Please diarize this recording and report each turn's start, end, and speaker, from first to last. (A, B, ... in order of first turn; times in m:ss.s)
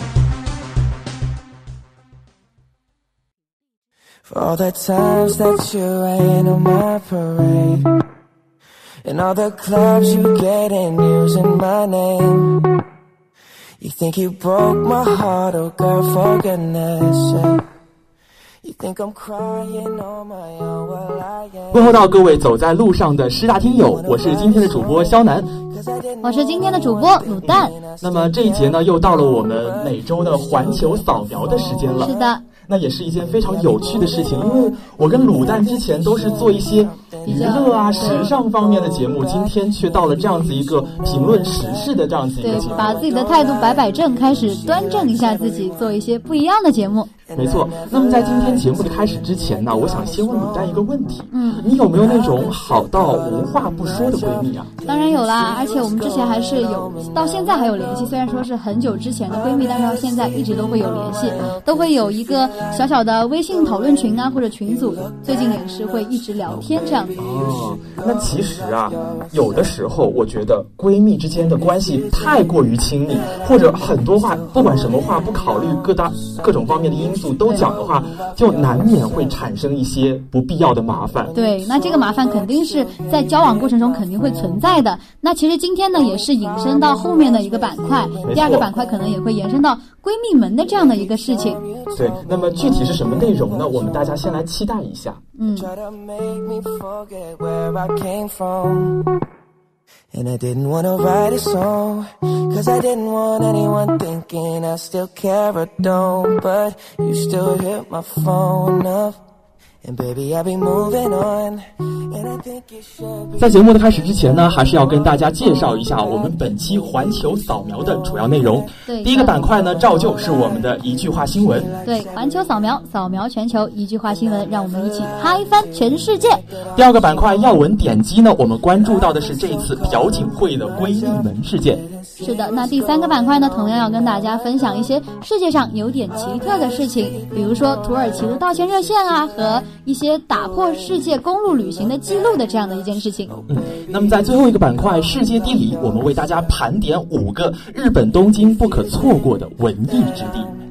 0:04.3-0:07.9 A
0:09.0-0:12.7 A
0:13.8-0:17.6 A
0:18.6-0:22.2 A
0:21.7-0:25.6 B
0:23.7-0:25.2 A
0:25.7-0:29.5 A
0:26.2-0:27.7 C
0:27.4-0:43.0 B
0:31.5-0:32.2 A
0:32.0-0:32.4 C
0:33.7-0:34.6 A
0:35.2-0:38.3 A
0:37.2-0:38.3 C
0:42.4-0:47.1 C
0:42.5-0:45.7 A
0:47.2-0:50.6 A
0:47.3-0:54.7 B
0:51.3-0:51.6 C
0:51.9-0:57.5 A
0:54.8-1:07.2 C
1:07.2-1:21.3 B
1:17.4-1:17.7 C
1:21.3-1:31.6 C
1:28.1-1:28.7 A
1:28.2-1:28.7 B
1:31.0-1:34.1 A
1:31.9-1:35.2 B
1:35.4-1:35.7 C
1:35.5-1:39.1 A
1:40.1-1:49.2 A
1:49.8-1:53.5 A
1:53.4-2:01.7 B
1:58.8-1:59.4 C
2:01.8-2:06.4 C
2:06.7-2:11.8 B
2:12.2-2:23.4 C
2:23.5-2:30.5 B